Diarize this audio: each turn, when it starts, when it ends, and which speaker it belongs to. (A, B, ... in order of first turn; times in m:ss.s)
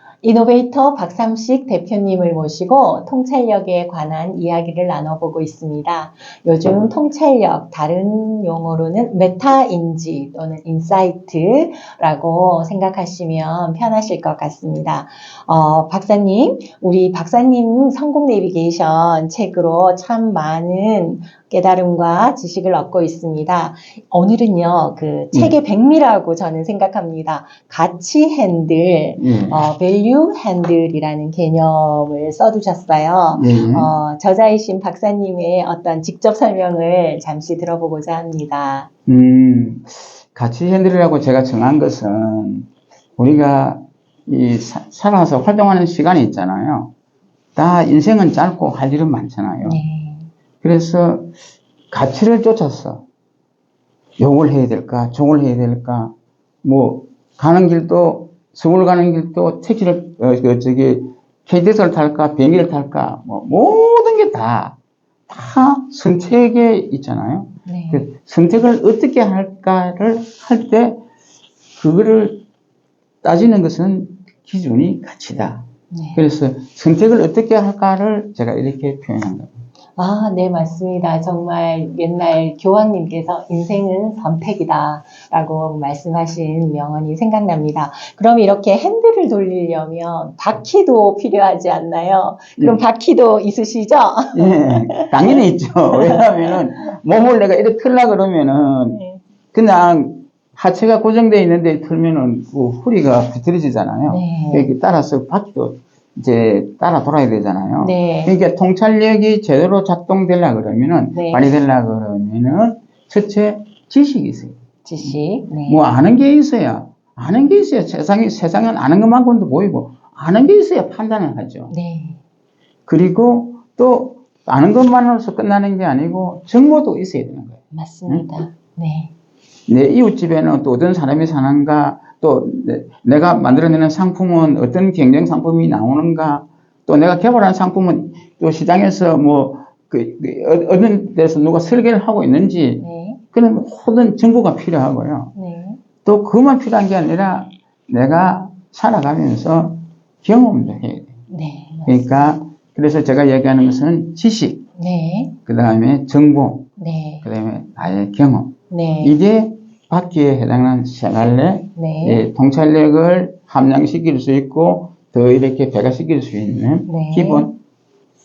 0:00.2-0:38.9 A
0:29.2-0:29.6 B
0:33.4-0:33.9 B
0:39.1-0:46.9 B
0:47.6-0:49.8 B
0:49.6-0:50.3 A
0:50.6-0:51.3 B
0:51.9-0:53.0 B
0:54.2-0:56.1 B
0:56.6-1:04.8 B
1:05.3-1:11.0 B
1:07.6-1:08.1 A
1:11.8-1:12.4 B
1:13.2-1:19.5 B
1:15.9-1:16.2 A
1:20.0-1:35.4 A
1:34.3-1:39.0 B
1:35.9-1:36.5 A
1:38.9-1:39.2 A
1:39.5-2:01.7 B
1:44.1-1:44.7 A
1:47.8-1:48.4 A
1:51.1-1:51.5 A
1:54.8-1:55.8 A
2:01.7-2:02.2 A
2:02.9-2:08.3 B
2:07.7-2:09.1 A
2:09.7-2:25.3 B
2:22.8-2:23.2 A
2:25.4-2:25.8 A
2:26.0-2:31.1 B
2:31.3-2:32.1 A
2:31.9-2:34.6 B
2:34.8-2:35.4 A
2:35.5-2:36.7 B
2:36.8-2:37.3 A
2:37.2-2:47.6 B
2:38.7-2:39.2 A
2:41.8-2:42.2 A
2:46.9-2:47.5 A